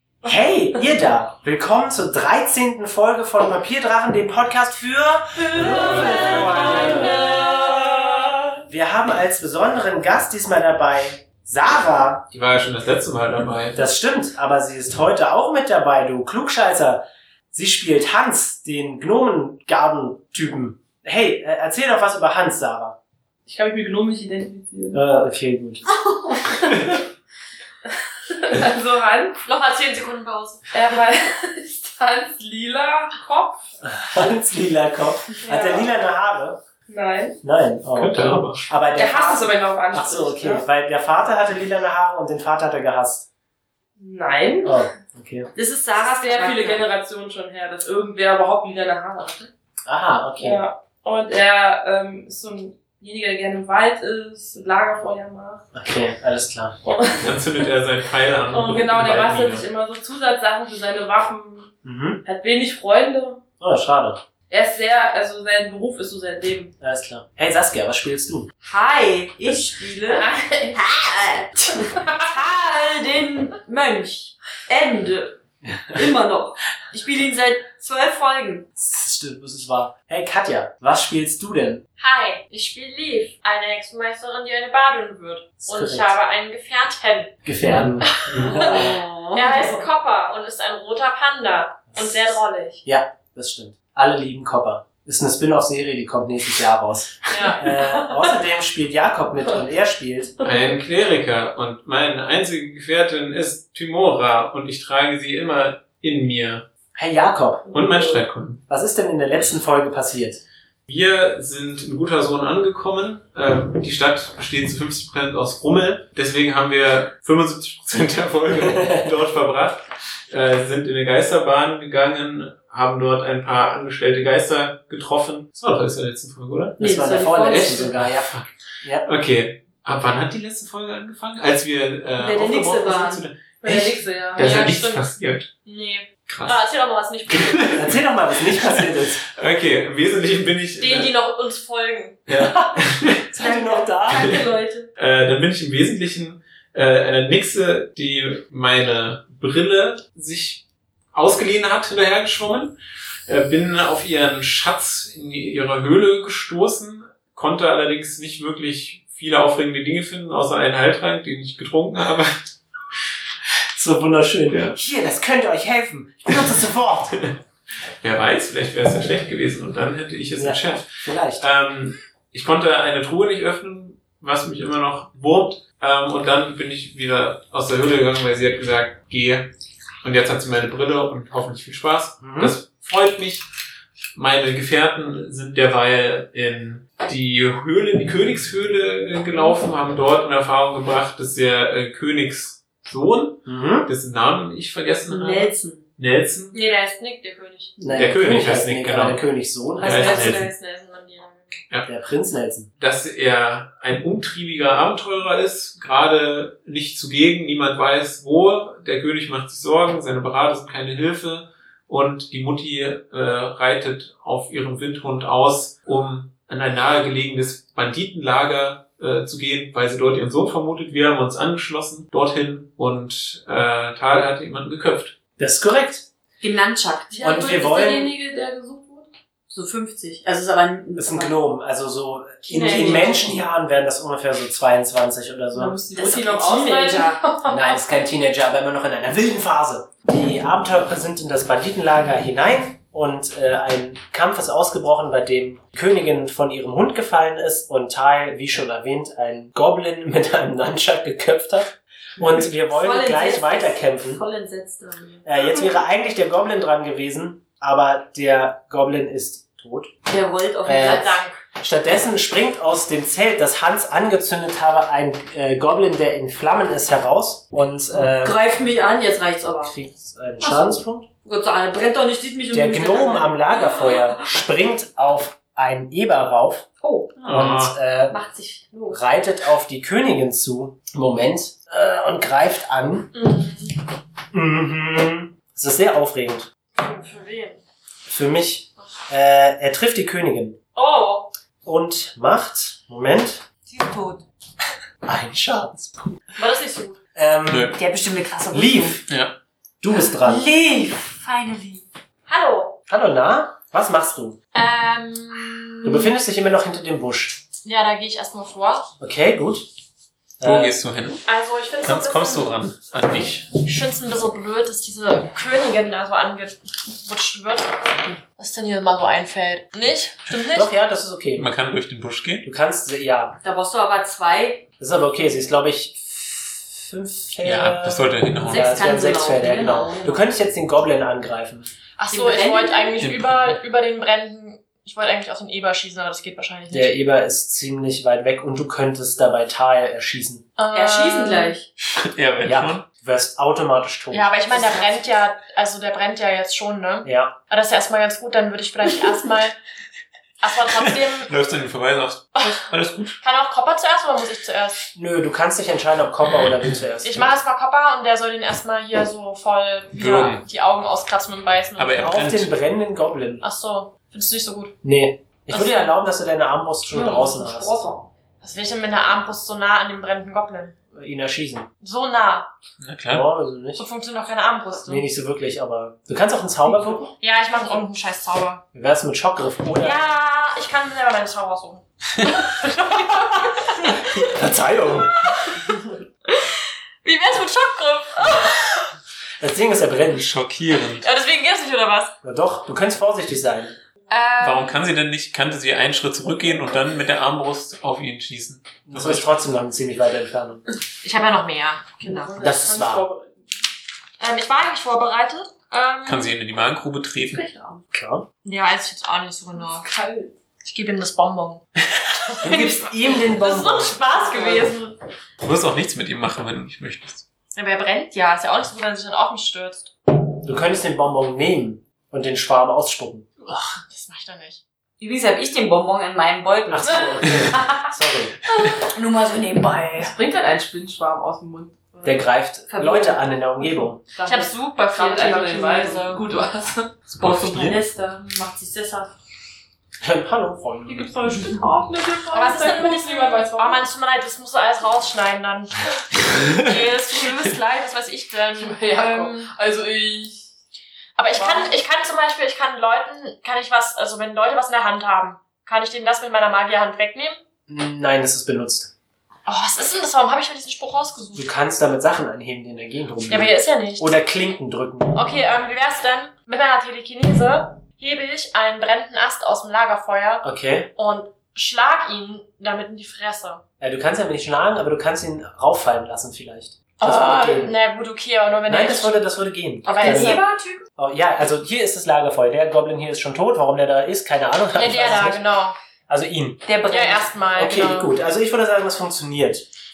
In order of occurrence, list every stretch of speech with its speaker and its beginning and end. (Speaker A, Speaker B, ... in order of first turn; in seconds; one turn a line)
Speaker A: 0.2-12.3
Speaker B: 5.5-8.1
Speaker C: 5.8-7.2
Speaker C: 12.3-13.8
Speaker A: 13.7-23.0
Speaker D: 23.4-25.0
Speaker A: 24.9-26.0
Speaker D: 26.4-27.0
Speaker D: 28.3-29.4
Speaker E: 29.4-30.8
Speaker D: 30.7-33.7
Speaker A: 33.9-36.6
Speaker D: 35.5-35.9
Speaker D: 36.9-37.4
Speaker A: 37.4-43.3
Speaker C: 37.9-38.6
Speaker D: 38.9-40.6
Speaker D: 44.0-44.8
Speaker A: 44.6-45.5
Speaker B: 45.5-46.9
Speaker D: 46.0-49.5
Speaker A: 49.9-50.6
Speaker D: 50.4-55.6
Speaker A: 55.7-56.8
Speaker D: 56.8-57.4
Speaker C: 57.2-59.7
Speaker D: 58.5-63.4
Speaker A: 61.8-62.2
Speaker A: 63.6-64.2
Speaker D: 64.5-66.7
Speaker A: 66.8-68.5
Speaker B: 68.6-75.4
Speaker D: 70.0-70.8
Speaker D: 71.9-72.2
Speaker A: 75.7-76.0
Speaker B: 75.9-78.7
Speaker A: 78.8-81.8
Speaker E: 82.0-87.4
Speaker A: 85.6-86.2
Speaker A: 87.4-89.0
Speaker B: 87.6-87.9
Speaker E: 88.1-92.8
Speaker C: 88.3-88.8
Speaker B: 88.5-89.8
Speaker A: 91.9-100.4
Speaker E: 97.3-98.2
Speaker C: 100.4-106.7
Speaker A: 107.0-107.6
Speaker C: 107.7-108.6
Speaker A: 108.7-110.4
Speaker C: 110.9-126.8
Speaker A: 118.6-119.1
Speaker A: 126.8-129.1
Speaker B: 126.8-127.9
Speaker C: 127.5-135.5
Speaker B: 132.2-133.2
Speaker D: 133.6-134.7
Speaker E: 134.4-135.0
Speaker E: 135.6-137.8
Speaker C: 136.3-136.6
Speaker C: 137.3-141.1
Speaker A: 137.6-139.2
Speaker E: 140.8-142.2
Speaker C: 142.3-143.3
Speaker A: 142.4-144.4
Speaker B: 143.4-144.9
Speaker C: 144.1-144.4
Speaker C: 145.0-152.8
Speaker C: 153.3-162.3
Speaker A: 163.8-167.2
Speaker C: 164.5-164.8
Speaker C: 168.0-179.5
Speaker A: 170.4-171.5
Speaker C: 180.0-183.4
Speaker A: 182.2-182.5
Speaker C: 184.2-196.5
Speaker A: 193.4-193.9
Speaker B: 195.1-195.8
Speaker E: 196.5-197.8
Speaker A: 197.8-200.3
Speaker C: 197.9-199.2
Speaker B: 199.8-200.5
Speaker C: 199.8-200.4
Speaker E: 199.8-201.5
Speaker A: 201.8-202.7
Speaker C: 202.8-225.2
Speaker A: 225.4-226.1
Speaker B: 226.4-227.6
Speaker D: 227.1-229.1
Speaker A: 227.2-228.1
Speaker B: 229.5-231.4
Speaker A: 230.9-235.9
Speaker B: 232.5-233.3
Speaker E: 232.6-233.1
Speaker D: 232.6-233.1
Speaker D: 235.5-237.2
Speaker E: 235.9-237.8
Speaker B: 235.9-237.2
Speaker A: 237.4-254.2
Speaker B: 252.7-255.3
Speaker A: 255.2-259.9
Speaker B: 260.1-261.3
Speaker A: 260.6-268.4
Speaker E: 260.8-261.3
Speaker B: 267.9-269.8
Speaker A: 269.6-271.1
Speaker B: 270.4-274.0
Speaker A: 272.5-276.6
Speaker B: 276.8-277.2
Speaker C: 277.2-277.7
Speaker A: 277.3-278.1
Speaker B: 278.1-279.0
Speaker A: 278.9-283.1
Speaker E: 283.1-283.8
Speaker A: 284.3-286.5
Speaker E: 286.7-287.6
Speaker A: 288.1-290.6
Speaker E: 290.7-291.3
Speaker A: 291.6-293.4
Speaker B: 293.7-294.2
Speaker A: 295.0-296.1
Speaker E: 296.4-297.0
Speaker A: 297.1-297.7
Speaker C: 297.5-297.8
Speaker B: 297.7-299.0
Speaker A: 298.5-299.1
Speaker C: 299.1-299.4
Speaker A: 299.8-300.4
Speaker B: 299.9-301.8
Speaker E: 302.3-302.8
Speaker A: 302.9-304.4
Speaker E: 304.5-306.1
Speaker A: 305.8-307.4
Speaker E: 307.6-308.9
Speaker A: 309.0-309.7
Speaker A: 310.4-310.8
Speaker C: 310.4-311.2
Speaker E: 311.2-312.5
Speaker C: 311.8-313.5
Speaker E: 313.6-320.7
Speaker A: 320.5-321.5
Speaker C: 321.4-322.4
Speaker A: 322.4-323.4
Speaker B: 323.4-324.6
Speaker A: 324.8-331.7
Speaker C: 327.4-328.9
Speaker B: 328.4-330.2
Speaker E: 332.0-336.9
Speaker B: 332.1-333.0
Speaker C: 333.0-333.6
Speaker A: 336.7-340.4
Speaker E: 340.6-341.5
Speaker B: 340.7-341.7
Speaker C: 341.8-342.8
Speaker A: 342.4-344.9
Speaker E: 344.1-349.6
Speaker A: 347.0-347.3
Speaker E: 350.4-351.3
Speaker C: 350.7-353.2
Speaker E: 352.4-352.7
Speaker E: 353.2-354.9
Speaker A: 354.9-357.3
Speaker E: 357.0-362.1
Speaker C: 359.9-360.4
Speaker C: 361.8-362.6
Speaker A: 362.0-363.4
Speaker E: 363.4-364.7
Speaker A: 364.8-367.8
Speaker E: 365.5-365.9
Speaker D: 366.9-368.1
Speaker E: 368.4-370.8
Speaker A: 370.9-371.7
Speaker E: 371.8-372.5
Speaker C: 372.8-373.2
Speaker A: 373.1-373.9
Speaker E: 373.8-375.0
Speaker A: 374.8-377.1
Speaker E: 377.2-378.6
Speaker A: 378.7-380.1
Speaker E: 379.8-384.4
Speaker A: 383.2-385.5
Speaker E: 385.2-388.8
Speaker A: 389.4-390.3
Speaker C: 390.1-391.1
Speaker E: 390.9-392.1
Speaker A: 392.2-393.8
Speaker E: 394.1-394.8
Speaker C: 394.4-399.4
Speaker A: 398.9-400.6
Speaker E: 401.0-402.0
Speaker B: 402.0-402.3
Speaker D: 402.0-403.3
Speaker A: 402.4-403.1
Speaker E: 404.2-406.3
Speaker C: 406.0-407.4
Speaker D: 407.4-407.8
Speaker A: 407.9-408.2
Speaker E: 408.4-409.9
Speaker D: 409.6-410.3
Speaker E: 410.6-414.9
Speaker A: 412.4-414.1
Speaker D: 414.4-414.7
Speaker C: 415.4-417.2
Speaker E: 417.6-419.9
Speaker A: 420.4-423.3
Speaker E: 423.8-424.6
Speaker B: 425.0-427.6
Speaker A: 426.7-428.4
Speaker B: 428.7-430.1
Speaker D: 430.0-432.2
Speaker A: 432.0-434.0
Speaker B: 432.7-433.2
Speaker B: 434.1-436.4
Speaker E: 434.2-434.5
Speaker D: 434.4-437.0
Speaker B: 437.1-439.1
Speaker C: 437.1-437.8
Speaker A: 440.0-441.1
Speaker D: 440.9-443.8
Speaker B: 441.2-443.0
Speaker E: 442.3-449.5
Speaker D: 448.6-450.5
Speaker E: 451.1-457.4
Speaker D: 451.3-451.7
Speaker A: 457.7-458.9
Speaker E: 459.4-461.4
Speaker A: 461.3-465.2
Speaker E: 463.3-464.1
Speaker E: 465.1-470.4
Speaker A: 470.4-470.9
Speaker E: 470.9-473.6
Speaker A: 473.8-477.8
Speaker E: 477.0-479.1
Speaker A: 478.7-480.4
Speaker E: 479.8-480.4
Speaker B: 479.9-480.8
Speaker A: 481.0-485.4
Speaker E: 484.7-485.8
Speaker A: 486.1-486.6
Speaker B: 486.6-487.3
Speaker E: 486.9-488.1
Speaker A: 487.5-489.7